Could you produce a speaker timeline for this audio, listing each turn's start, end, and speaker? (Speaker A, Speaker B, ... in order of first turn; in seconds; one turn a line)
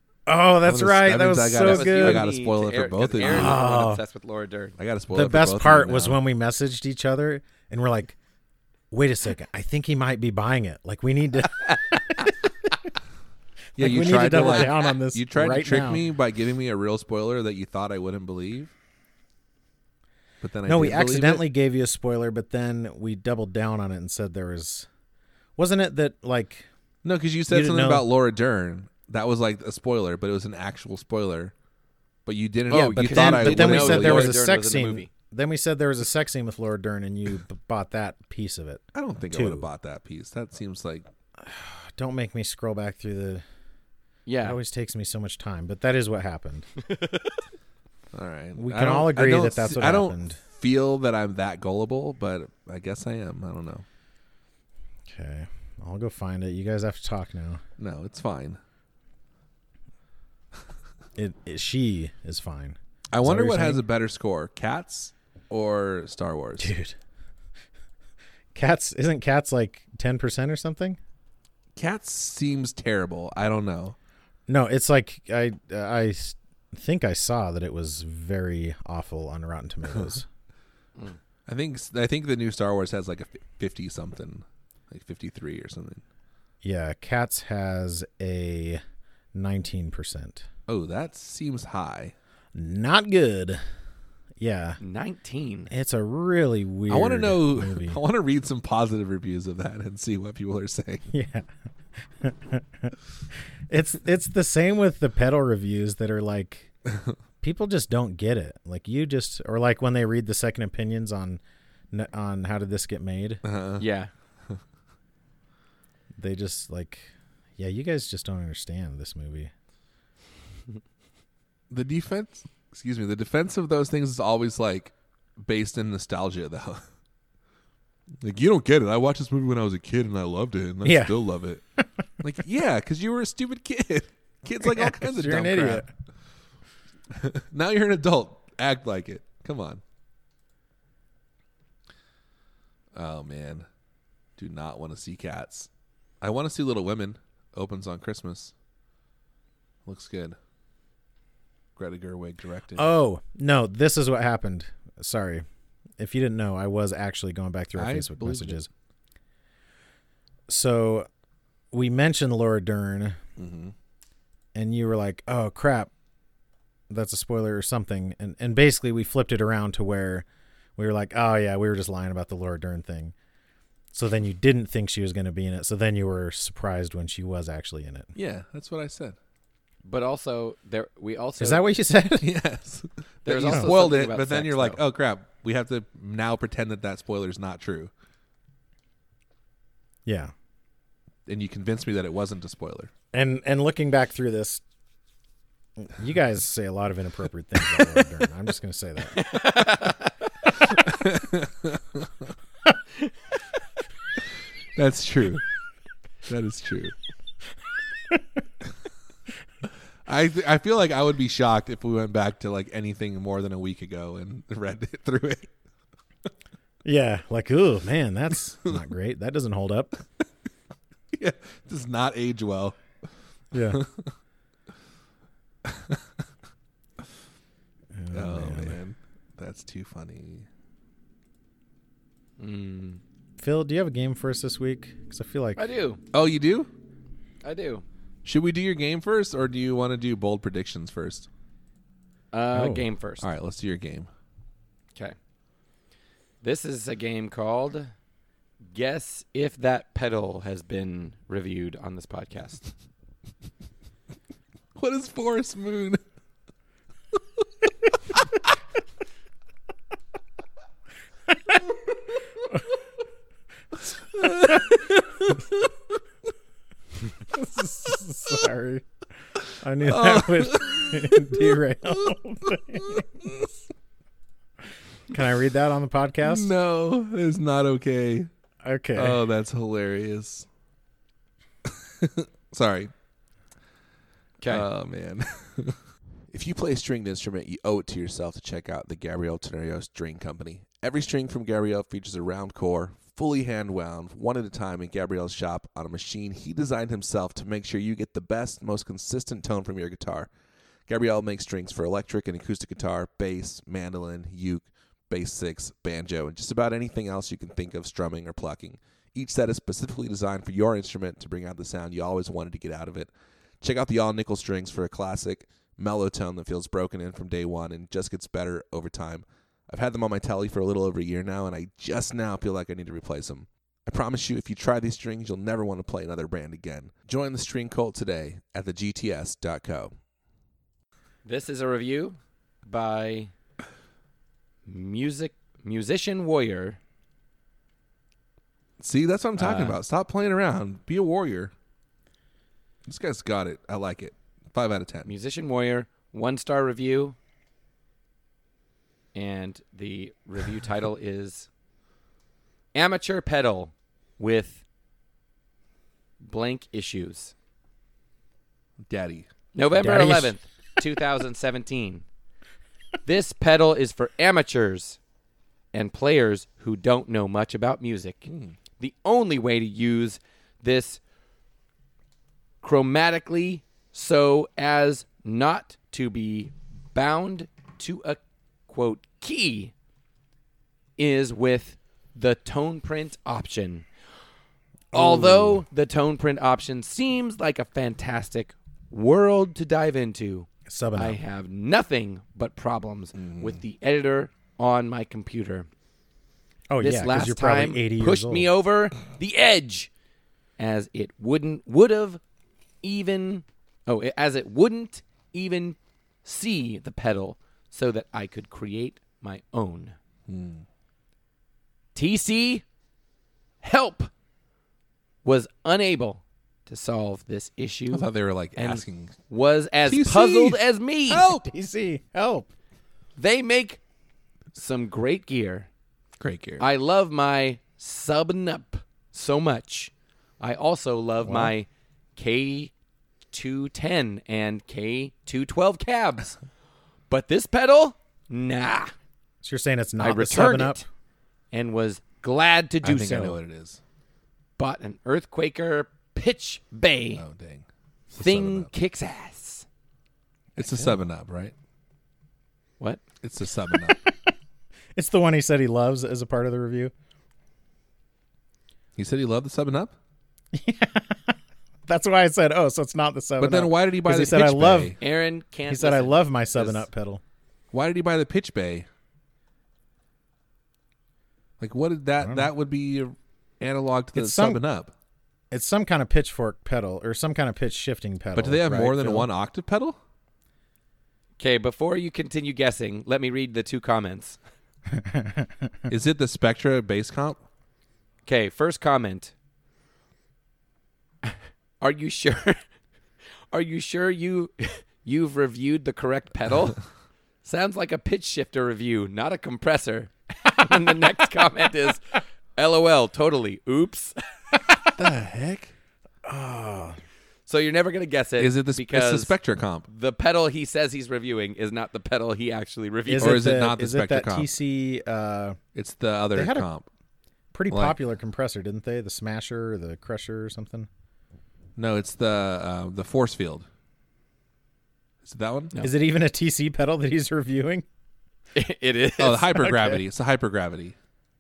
Speaker A: 0.3-2.3
Speaker B: 0.6-3.6
Speaker C: 1.6-4.8
Speaker A: 3.2-4.0
Speaker B: 4.8-6.2
Speaker A: 5.1-8.2
Speaker A: 8.9-12.3
Speaker C: 11.5-12.7
Speaker A: 13.8-16.0
Speaker B: 13.8-18.7
Speaker B: 20.4-21.5
Speaker A: 20.7-24.9
Speaker A: 25.6-26.7
Speaker B: 27.0-31.5
Speaker A: 27.5-28.1
Speaker B: 32.3-34.4
Speaker C: 32.7-35.1
Speaker A: 32.7-39.7
Speaker B: 38.9-41.1
Speaker A: 41.4-43.4
Speaker C: 44.3-44.6
Speaker A: 44.4-46.7
Speaker C: 46.8-47.3
Speaker B: 48.1-53.9
Speaker A: 48.6-50.4
Speaker A: 55.1-57.6
Speaker B: 57.8-58.6
Speaker A: 61.2-63.8
Speaker B: 63.1-66.7
Speaker A: 66.6-67.0
Speaker A: 68.5-71.0
Speaker B: 71.8-74.0
Speaker A: 74.5-80.3
Speaker B: 81.5-86.0
Speaker A: 86.6-88.8
Speaker A: 89.3-90.5
Speaker B: 90.7-92.2
Speaker A: 92.5-93.6
Speaker A: 94.4-94.8
Speaker C: 94.8-95.7
Speaker A: 95.7-98.0
Speaker B: 96.9-101.1
Speaker A: 101.1-101.5
Speaker A: 102.2-103.0
Speaker A: 103.7-106.7
Speaker A: 107.4-113.4
Speaker B: 113.4-113.9
Speaker C: 113.8-114.1
Speaker A: 116.2-119.5
Speaker B: 121.7-126.8
Speaker B: 128.2-131.6
Speaker A: 130.8-131.2
Speaker B: 132.2-135.9
Speaker A: 134.6-135.9
Speaker B: 137.1-139.8
Speaker B: 142.9-143.7
Speaker B: 144.4-145.7
Speaker B: 146.2-148.5
Speaker B: 149.9-150.4
Speaker B: 151.8-152.9
Speaker A: 152.8-155.4
Speaker A: 156.0-158.7
Speaker B: 157.8-158.7
Speaker A: 160.5-161.1
Speaker A: 161.7-163.2
Speaker B: 163.4-163.7
Speaker A: 164.5-165.9
Speaker A: 166.9-173.1
Speaker A: 173.9-178.1
Speaker B: 178.2-179.2
Speaker C: 179.8-181.7
Speaker A: 181.4-182.3
Speaker B: 182.2-187.9
Speaker C: 183.2-184.8
Speaker A: 183.4-183.7
Speaker A: 190.1-190.3
Speaker B: 191.3-192.9
Speaker A: 193.1-194.6
Speaker A: 195.8-199.3
Speaker C: 199.1-200.2
Speaker B: 200.6-202.3
Speaker B: 204.8-205.4
Speaker B: 206.3-206.9
Speaker B: 210.1-215.5
Speaker A: 216.8-219.9
Speaker B: 221.1-222.8
Speaker A: 223.5-223.8
Speaker B: 223.7-224.1
Speaker B: 225.7-226.1
Speaker A: 227.9-228.8
Speaker B: 228.1-230.5
Speaker C: 232.4-233.0
Speaker A: 233.4-235.7
Speaker C: 235.6-236.0
Speaker B: 236.1-236.7
Speaker C: 237.4-237.8
Speaker B: 238.2-241.3
Speaker C: 242.3-243.3
Speaker A: 242.5-242.9
Speaker B: 243.2-244.1
Speaker C: 246.4-247.9
Speaker C: 248.7-252.7
Speaker B: 254.8-256.0
Speaker B: 264.1-265.7
Speaker A: 267.3-268.9
Speaker A: 269.6-273.1
Speaker B: 269.8-273.5
Speaker A: 275.1-276.5
Speaker B: 276.2-278.3
Speaker A: 278.6-279.2
Speaker B: 278.9-280.5
Speaker B: 281.7-282.9
Speaker C: 284.4-284.7
Speaker B: 284.5-285.8
Speaker B: 286.3-300.3
Speaker B: 300.9-313.1
Speaker B: 313.6-329.9
Speaker C: 331.2-333.3
Speaker C: 334.7-336.8
Speaker B: 338.8-341.5
Speaker C: 339.4-339.8
Speaker B: 342.9-345.1
Speaker C: 345.1-347.2
Speaker C: 349.1-351.5
Speaker C: 352.7-354.6
Speaker C: 356.2-357.3
Speaker B: 358.9-359.3
Speaker C: 359.6-362.1
Speaker A: 359.8-360.4
Speaker C: 363.1-365.0
Speaker C: 365.7-371.0
Speaker B: 368.3-368.6
Speaker C: 372.6-379.7
Speaker C: 381.0-383.9
Speaker A: 384.9-385.6
Speaker C: 384.9-395.7
Speaker A: 390.7-391.2
Speaker B: 393.2-393.6
Speaker A: 396.7-398.5
Speaker C: 396.8-399.9
Speaker C: 400.6-402.2
Speaker C: 402.8-409.9
Speaker B: 410.3-410.6
Speaker C: 411.9-412.6
Speaker C: 413.6-414.1
Speaker C: 415.2-421.3
Speaker B: 417.9-419.1
Speaker B: 419.9-421.5
Speaker A: 421.2-422.5
Speaker C: 423.2-423.8
Speaker C: 424.5-425.7
Speaker B: 426.2-426.7
Speaker C: 426.6-432.7
Speaker A: 431.2-431.5
Speaker C: 433.3-436.4
Speaker C: 437.1-438.9
Speaker A: 439.4-440.9
Speaker C: 440.0-440.8
Speaker C: 441.5-443.4
Speaker B: 442.8-443.8
Speaker C: 444.6-447.2
Speaker B: 447.1-448.7
Speaker C: 448.2-449.7
Speaker B: 450.6-451.6
Speaker B: 453.2-454.1
Speaker A: 454.9-456.9
Speaker B: 459.0-459.9
Speaker A: 460.5-465.0
Speaker B: 463.4-465.0
Speaker C: 465.0-466.9
Speaker A: 465.7-467.2
Speaker B: 467.7-468.9
Speaker B: 471.6-474.9
Speaker A: 472.2-472.5
Speaker A: 474.1-474.6
Speaker A: 475.5-479.3
Speaker B: 478.4-480.0
Speaker C: 481.4-484.4
Speaker A: 484.9-485.7
Speaker B: 485.9-487.4
Speaker C: 488.3-489.3
Speaker C: 491.2-492.6
Speaker C: 493.5-496.8
Speaker C: 497.4-504.9
Speaker B: 505.0-505.7
Speaker A: 506.2-507.0
Speaker C: 507.5-509.4
Speaker B: 508.4-509.9
Speaker C: 509.9-513.5
Speaker A: 513.1-515.6
Speaker B: 513.2-514.5
Speaker B: 515.7-516.9
Speaker A: 516.3-516.7
Speaker A: 517.5-520.9
Speaker B: 517.7-518.0
Speaker B: 521.8-523.7
Speaker B: 525.2-525.7
Speaker A: 525.8-527.9
Speaker C: 528.5-529.9
Speaker B: 529.2-531.0